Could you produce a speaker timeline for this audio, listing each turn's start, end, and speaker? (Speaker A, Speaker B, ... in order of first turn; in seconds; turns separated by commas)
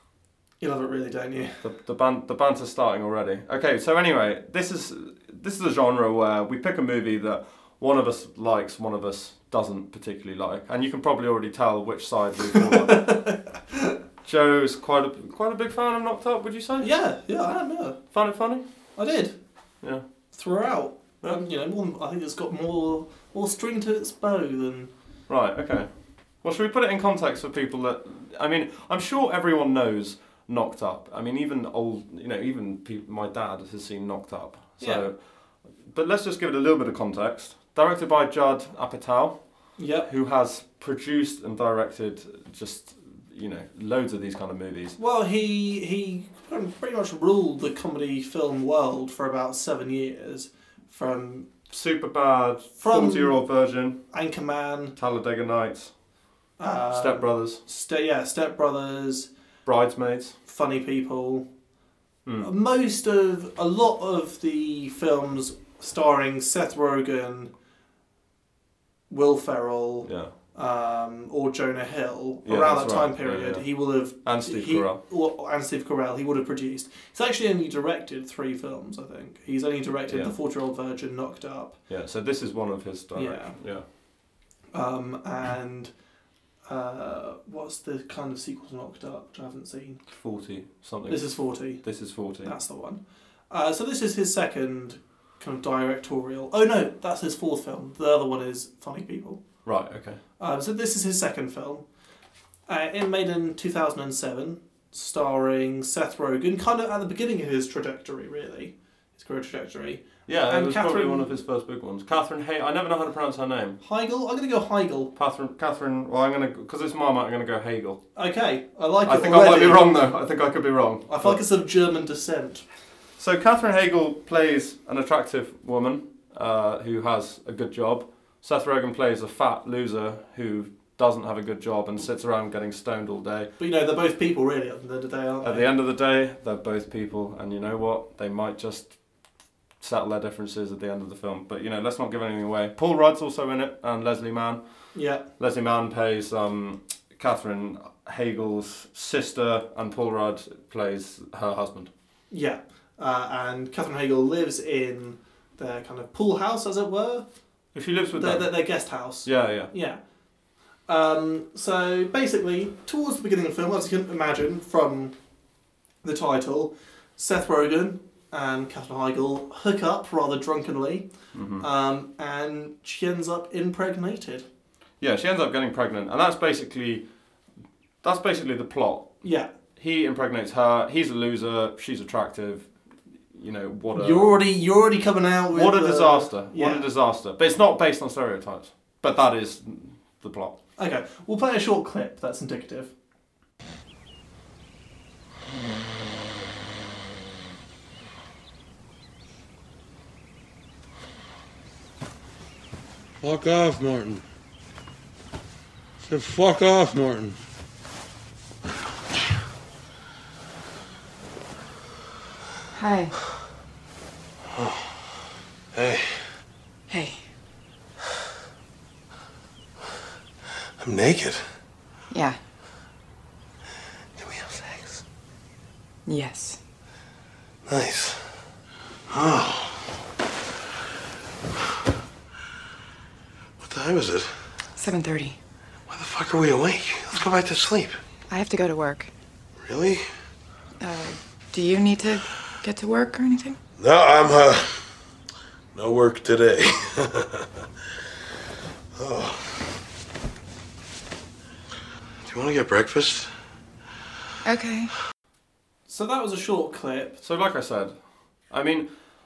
Speaker A: 0.6-1.6, Speaker B: 1.6-13.3, Speaker A: 12.8-13.9, Speaker B: 14.2-16.9, Speaker A: 16.8-18.0, Speaker B: 18.1-18.6, Speaker A: 19.0-19.4, Speaker A: 20.3-24.9, Speaker B: 25.3-25.9, Speaker B: 26.4-35.1, Speaker A: 34.8-35.0, Speaker B: 35.9-45.0, Speaker A: 39.8-40.1, Speaker A: 45.0-51.5, Speaker B: 51.7-54.0, Speaker A: 52.8-53.4, Speaker A: 54.1-54.9, Speaker B: 55.0-55.9, Speaker A: 56.6-59.3, Speaker B: 56.9-57.6, Speaker B: 59.7-60.4, Speaker A: 60.5-61.5, Speaker A: 62.4-67.5, Speaker A: 69.1-81.8, Speaker B: 70.0-70.3, Speaker B: 72.5-75.0, Speaker B: 81.9-83.8, Speaker A: 83.2-83.6, Speaker A: 84.7-85.9, Speaker A: 86.7-90.0, Speaker B: 90.1-92.5, Speaker A: 91.1-91.8, Speaker A: 92.4-99.4, Speaker B: 99.7-100.2, Speaker A: 100.4-101.8, Speaker A: 102.7-111.3, Speaker B: 110.3-113.8, Speaker A: 113.8-115.1, Speaker B: 115.2-118.0, Speaker A: 118.2-119.9, Speaker B: 119.1-121.4, Speaker A: 121.1-122.6, Speaker B: 123.2-133.5, Speaker A: 133.6-135.7, Speaker B: 135.4-138.9, Speaker B: 139.8-144.6, Speaker A: 144.9-145.2, Speaker B: 145.4-151.9, Speaker A: 152.3-157.3, Speaker B: 157.7-158.6, Speaker A: 158.2-160.0, Speaker B: 159.2-159.7, Speaker A: 160.9-165.1, Speaker A: 166.0-171.1, Speaker B: 171.3-171.7, Speaker A: 171.6-174.5, Speaker B: 175.0-177.0, Speaker B: 178.0-179.2, Speaker A: 179.2-179.5, Speaker B: 179.8-182.7, Speaker B: 183.3-184.3, Speaker A: 183.9-186.8, Speaker B: 185.5-190.6, Speaker A: 190.8-192.9, Speaker C: 203.2-204.2, Speaker C: 206.1-207.4, Speaker D: 212.7-213.1, Speaker E: 214.6-214.9, Speaker E: 215.7-216.3, Speaker D: 216.9-217.2, Speaker E: 220.8-221.6, Speaker D: 222.1-222.4, Speaker E: 224.2-225.0, Speaker D: 226.1-226.6, Speaker E: 227.7-228.4, Speaker E: 229.1-229.9, Speaker E: 233.6-234.5, Speaker D: 234.8-235.4, Speaker E: 235.9-238.0, Speaker D: 238.3-239.1, Speaker E: 239.6-240.1, Speaker D: 240.8-243.6, Speaker E: 243.8-244.9, Speaker E: 245.7-247.5, Speaker E: 249.0-249.7, Speaker E: 252.2-253.3, Speaker D: 254.4-254.9, Speaker A: 255.9-257.2, Speaker B: 257.2-257.9, Speaker B: 258.5-258.9